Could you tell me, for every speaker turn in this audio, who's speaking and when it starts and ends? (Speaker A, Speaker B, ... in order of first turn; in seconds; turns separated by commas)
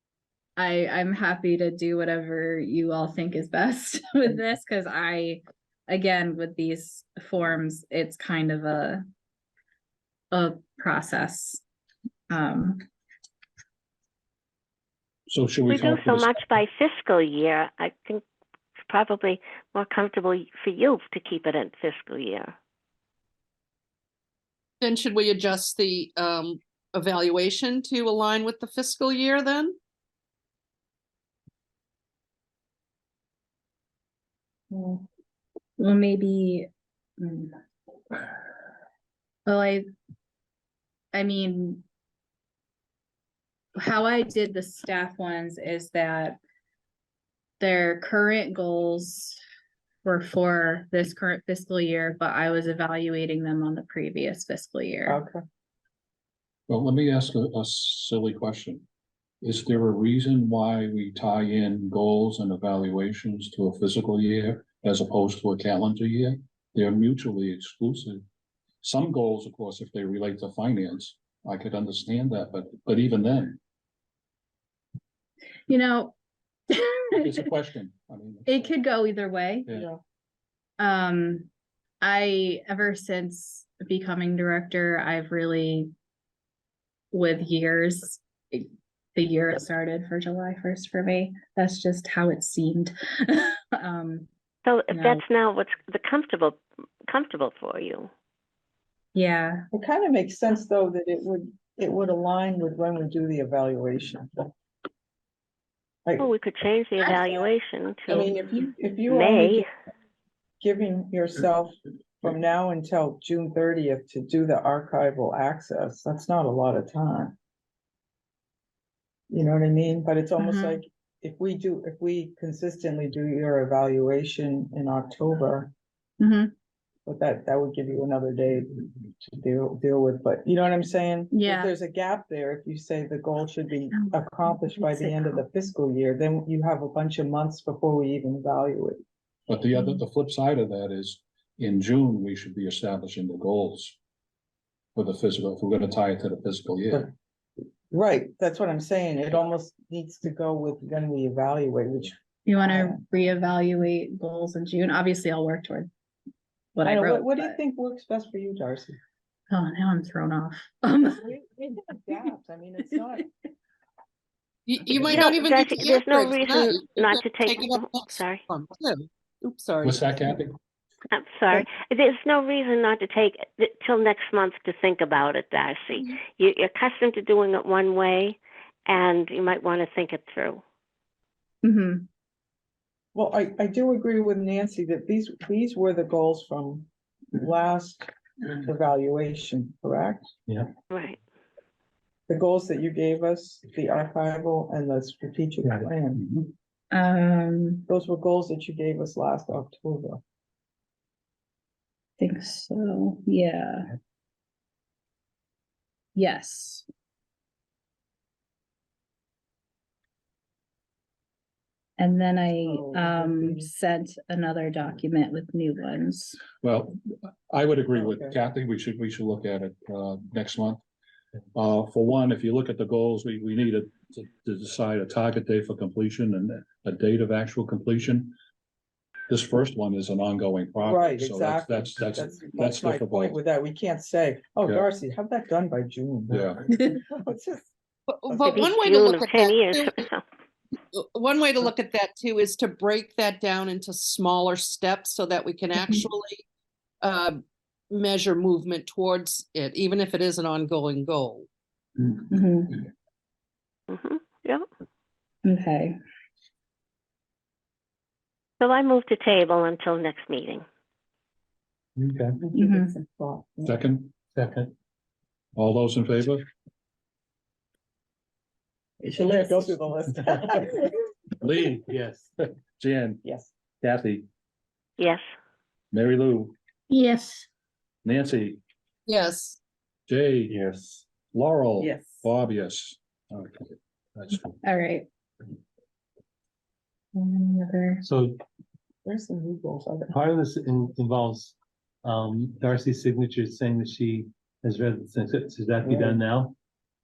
Speaker A: 0.6-9.0, Speaker A: 10.3-11.6, Speaker A: 12.3-12.8, Speaker B: 15.3-16.4, Speaker C: 15.7-18.2, Speaker C: 18.9-22.5, Speaker D: 24.8-29.8, Speaker A: 34.7-35.0, Speaker A: 35.8-36.7, Speaker A: 37.2-37.5, Speaker A: 39.5-39.8, Speaker A: 41.1-41.8, Speaker A: 43.8-46.4, Speaker A: 47.6-49.4, Speaker A: 50.0-55.2, Speaker E: 55.1-55.4, Speaker B: 56.7-58.8, Speaker B: 59.4-68.2, Speaker B: 68.8-73.6, Speaker A: 75.7-76.1, Speaker A: 76.7-77.4, Speaker B: 77.1-78.7, Speaker A: 78.5-79.7, Speaker E: 79.7-80.0, Speaker A: 80.8-81.5, Speaker A: 82.0-85.9, Speaker A: 87.1-94.3, Speaker C: 94.6-98.1, Speaker A: 94.9-95.2, Speaker A: 99.1-99.6, Speaker E: 99.7-104.5, Speaker C: 106.2-108.3, Speaker E: 107.0-107.5, Speaker E: 108.1-109.7, Speaker C: 109.1-109.7, Speaker E: 110.6-117.3, Speaker E: 119.3-125.7, Speaker A: 120.4-120.8, Speaker A: 126.2-126.5, Speaker E: 127.0-139.0, Speaker A: 131.3-131.7, Speaker A: 134.7-135.4, Speaker B: 139.5-144.0, Speaker A: 139.7-140.0, Speaker B: 144.9-147.1, Speaker E: 147.9-153.0, Speaker A: 152.4-155.9, Speaker A: 156.7-157.6, Speaker E: 156.8-159.0, Speaker A: 159.5-161.2, Speaker E: 161.1-163.3, Speaker D: 164.7-170.1, Speaker C: 165.1-168.4, Speaker B: 169.8-170.6, Speaker C: 171.1-180.6, Speaker A: 181.6-182.1, Speaker E: 183.1-190.3, Speaker C: 190.9-191.2, Speaker E: 192.3-196.2, Speaker F: 195.6-196.5, Speaker A: 196.9-197.8, Speaker E: 197.9-200.2, Speaker A: 202.2-203.9, Speaker A: 206.1-206.8, Speaker A: 212.0-216.4, Speaker E: 212.5-213.7, Speaker B: 216.6-216.9, Speaker B: 217.5-220.8, Speaker E: 217.9-218.3, Speaker B: 221.5-228.3, Speaker B: 229.3-233.4, Speaker E: 230.8-237.7, Speaker B: 236.3-236.7, Speaker D: 238.1-240.1, Speaker C: 238.3-240.2, Speaker D: 240.9-246.4, Speaker D: 247.0-251.5, Speaker A: 252.3-252.8, Speaker C: 253.9-254.7, Speaker A: 255.4-255.9, Speaker C: 258.6-260.6, Speaker F: 261.9-262.4, Speaker E: 262.4-263.8, Speaker A: 262.6-262.9, Speaker B: 263.6-264.1, Speaker F: 264.3-264.7, Speaker B: 265.5-266.4, Speaker E: 269.0-270.9, Speaker B: 271.4-273.2, Speaker F: 271.9-272.3, Speaker E: 273.2-273.5, Speaker B: 273.8-274.2, Speaker C: 275.0-275.2, Speaker B: 275.9-276.5, Speaker B: 278.0-278.6, Speaker D: 279.1-279.6, Speaker B: 280.1-280.6, Speaker F: 280.5-281.0, Speaker B: 281.1-284.5, Speaker E: 281.8-282.3, Speaker A: 284.6-285.1, Speaker A: 287.1-288.0, Speaker F: 288.0-288.4, Speaker E: 289.0-290.2, Speaker F: 290.1-296.6, Speaker E: 295.8-296.2